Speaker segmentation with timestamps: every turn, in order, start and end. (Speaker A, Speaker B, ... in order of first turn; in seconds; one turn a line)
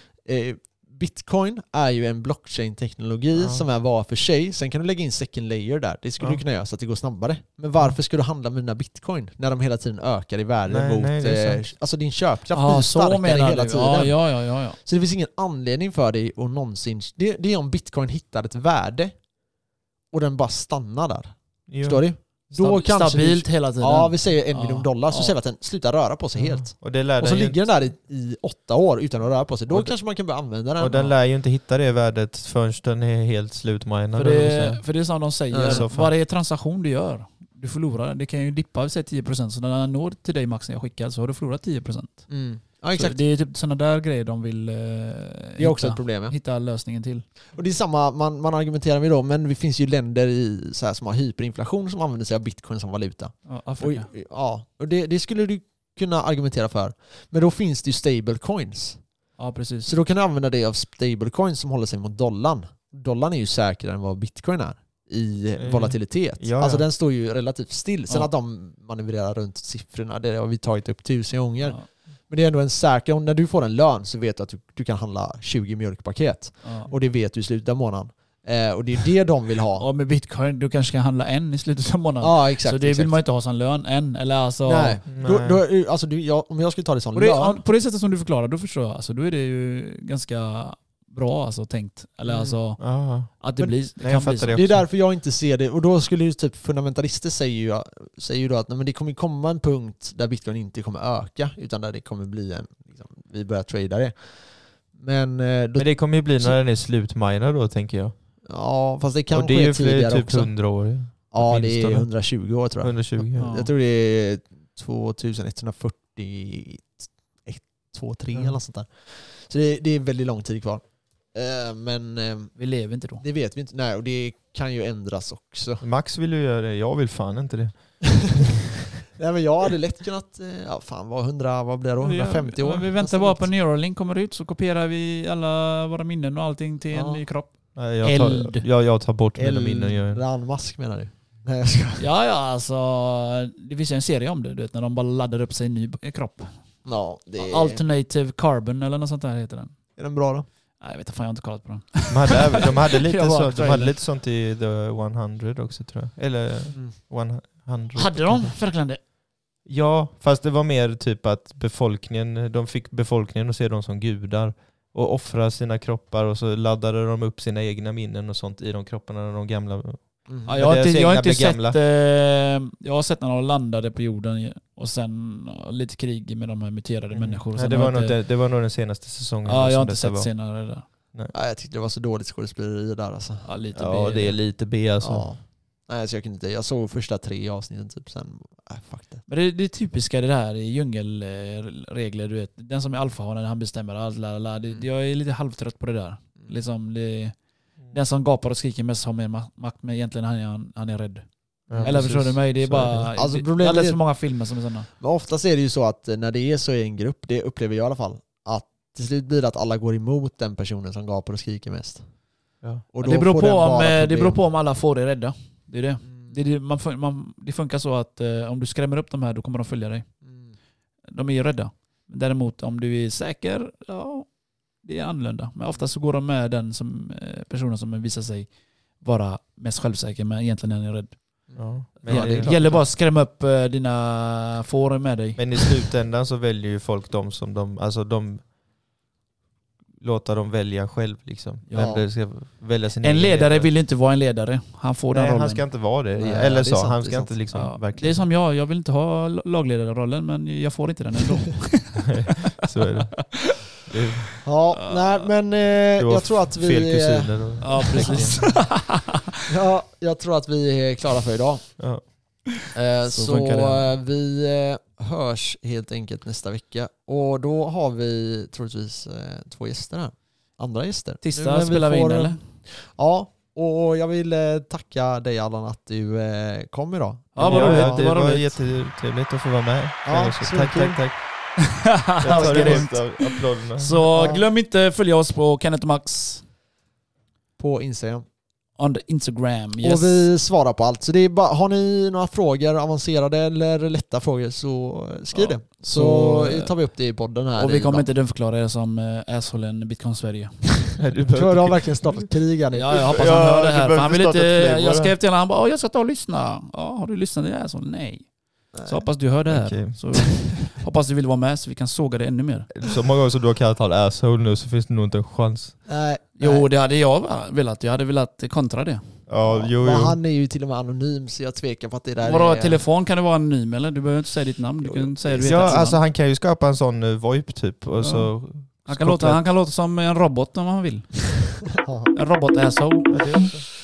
Speaker A: 0.2-14.2
Speaker B: 3.3-3.6
Speaker B: 10.7-11.6
Speaker C: 12.5-14.8
Speaker A: 14.8-19.1
Speaker A: 20.1-31.1
Speaker B: 21.7-22.0
Speaker C: 22.5-25.3
Speaker B: 26.4-27.6
Speaker B: 30.8-34.8
Speaker C: 34.1-42.3
Speaker A: 35.5-35.9
Speaker B: 35.6-36.1
Speaker A: 42.3-43.2
Speaker C: 42.9-47.2
Speaker A: 45.6-46.3
Speaker A: 47.5-59.0
Speaker C: 53.5-54.1
Speaker C: 59.4-59.9
Speaker A: 59.8-79.8
Speaker B: 65.6-66.8
Speaker C: 76.6-76.9
Speaker C: 79.8-85.0
Speaker A: 82.2-83.2
Speaker A: 84.6-87.6
Speaker B: 85.1-85.6
Speaker C: 87.1-94.7
Speaker A: 92.2-92.6
Speaker B: 92.8-94.8
Speaker A: 94.5-106.6
Speaker B: 105.8-108.1
Speaker A: 108.4-110.5
Speaker B: 109.3-112.1
Speaker A: 111.3-122.5
Speaker B: 112.8-113.5
Speaker C: 113.3-113.7
Speaker C: 122.6-123.2
Speaker A: 123.2-125.8
Speaker B: 125.8-128.5
Speaker A: 129.1-133.5
Speaker C: 132.0-137.5
Speaker A: 136.9-137.2
Speaker B: 137.7-140.2
Speaker C: 138.0-138.7
Speaker A: 139.3-142.0
Speaker C: 142.0-146.5
Speaker A: 146.8-147.8
Speaker C: 147.4-149.7
Speaker A: 149.9-150.4
Speaker C: 150.8-153.9
Speaker B: 152.1-158.5
Speaker C: 157.9-159.0
Speaker B: 159.7-171.8
Speaker A: 170.3-170.7
Speaker C: 170.5-178.2
Speaker A: 177.1-177.4
Speaker B: 177.5-180.3
Speaker C: 179.4-180.8
Speaker A: 181.3-183.4
Speaker C: 183.4-184.4
Speaker B: 183.7-185.3
Speaker A: 185.0-189.2
Speaker C: 189.3-197.3
Speaker C: 197.9-204.9
Speaker B: 201.7-203.1
Speaker A: 201.7-202.0
Speaker A: 203.2-204.0
Speaker A: 205.0-212.0
Speaker A: 212.9-214.4
Speaker C: 213.0-220.1
Speaker A: 216.1-216.3
Speaker A: 220.2-220.5
Speaker C: 221.1-224.3
Speaker C: 224.8-228.5
Speaker C: 229.0-231.2
Speaker A: 231.5-232.8
Speaker B: 231.6-232.6
Speaker C: 232.0-235.8
Speaker B: 235.3-238.5
Speaker B: 240.0-243.7
Speaker C: 241.7-242.0
Speaker A: 241.7-242.0
Speaker C: 243.0-245.7
Speaker B: 245.1-248.2
Speaker A: 246.1-247.3
Speaker C: 247.5-252.5
Speaker B: 251.9-254.3
Speaker A: 254.4-258.7
Speaker C: 254.7-255.3
Speaker B: 256.0-258.5
Speaker C: 257.6-259.1
Speaker A: 259.5-261.7
Speaker B: 261.8-262.0
Speaker A: 262.7-278.1
Speaker C: 263.1-263.9
Speaker C: 271.2-272.4
Speaker C: 277.3-278.6
Speaker B: 277.4-281.2
Speaker A: 280.0-281.0
Speaker C: 281.8-286.4
Speaker A: 282.2-282.9
Speaker B: 282.2-284.0
Speaker A: 284.1-284.4
Speaker A: 287.6-288.2
Speaker C: 288.8-290.3
Speaker A: 289.8-298.1
Speaker C: 295.3-296.7
Speaker C: 297.6-300.8
Speaker B: 301.0-302.2
Speaker A: 301.3-303.2
Speaker C: 302.7-308.3
Speaker B: 303.1-305.1
Speaker A: 308.7-309.0
Speaker C: 308.8-312.8
Speaker B: 309.5-310.0
Speaker B: 312.7-315.8
Speaker A: 315.9-316.7
Speaker C: 316.4-319.1
Speaker B: 319.3-320.2
Speaker A: 319.4-322.8
Speaker C: 322.2-326.0
Speaker A: 324.8-325.9
Speaker B: 325.4-329.4
Speaker C: 328.0-328.3
Speaker C: 328.9-333.4
Speaker A: 331.8-332.1
Speaker B: 333.1-333.6